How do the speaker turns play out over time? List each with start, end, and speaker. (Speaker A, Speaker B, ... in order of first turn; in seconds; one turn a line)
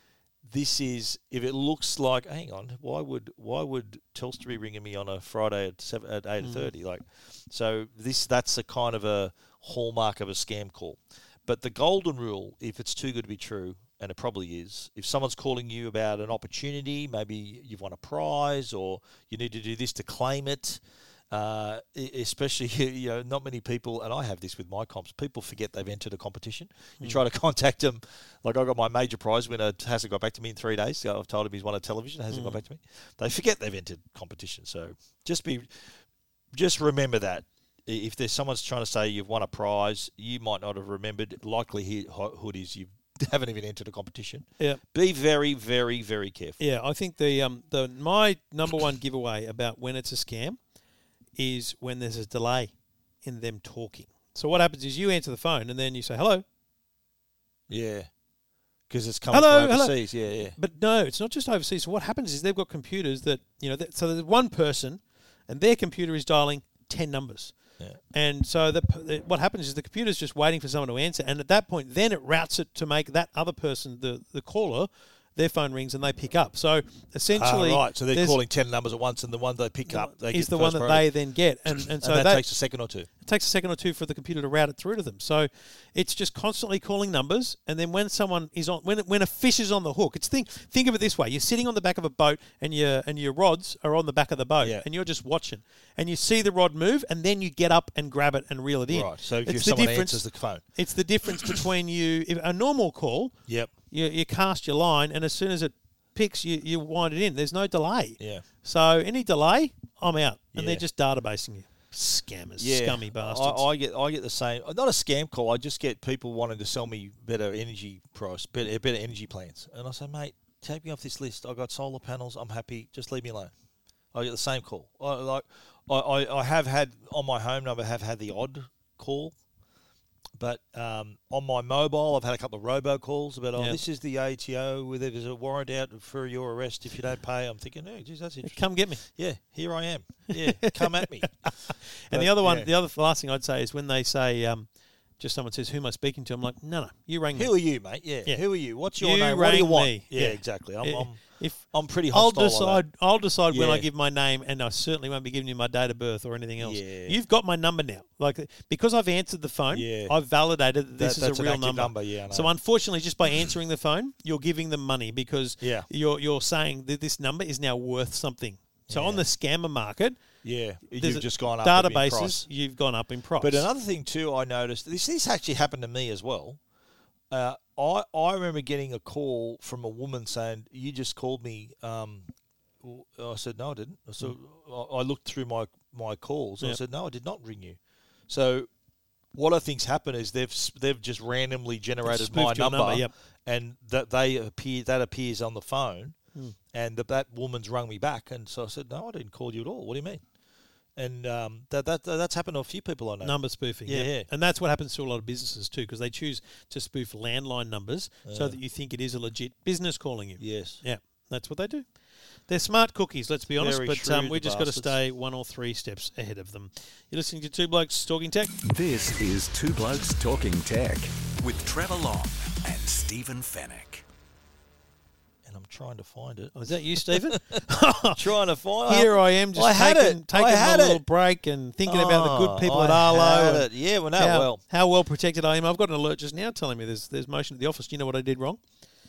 Speaker A: 0.4-36.0
Speaker B: 6.4-6.7
Speaker B: 32.3-32.6
Speaker A: 36.5-46.6
Speaker B: 46.6-50.6
Speaker B: 51.4-56.4
Speaker A: 57.7-58.1
Speaker A: 58.9-60.6
Speaker B: 59.3-67.5
Speaker B: 68.1-78.4
Speaker A: 77.3-81.1
Speaker B: 79.9-82.4
Speaker A: 81.8-83.1
Speaker B: 83.2-103.3
Speaker A: 94.6-94.8
Speaker A: 98.9-100.6
Speaker A: 101.3-101.6
Speaker B: 103.9-113.7
Speaker A: 108.2-108.5
Speaker A: 110.5-110.8
Speaker A: 112.6-123.5
Speaker A: 124.1-129.3
Speaker A: 130.4-142.7
Speaker B: 138.4-139.0
Speaker B: 140.3-144.7
Speaker B: 145.2-147.5
Speaker A: 147.3-152.8
Speaker B: 149.0-170.2
Speaker A: 153.5-153.9
Speaker A: 156.6-157.2
Speaker A: 159.7-160.2
Speaker A: 161.0-162.5
Speaker A: 165.6-165.9
Speaker A: 168.9-169.2
Speaker A: 170.4-172.4
Speaker B: 171.0-173.7
Speaker A: 173.4-176.6
Speaker A: 177.3-188.7
Speaker A: 189.3-196.2
Speaker B: 192.0-193.1
Speaker A: 196.7-200.2
Speaker A: 200.9-204.3
Speaker B: 203.2-211.9
Speaker A: 208.2-208.6
Speaker A: 210.4-210.8
Speaker B: 212.5-218.5
Speaker A: 213.6-215.0
Speaker C: 218.6-224.0
Speaker A: 225.4-231.0
Speaker B: 226.5-228.2
Speaker B: 228.8-238.6
Speaker A: 231.8-234.6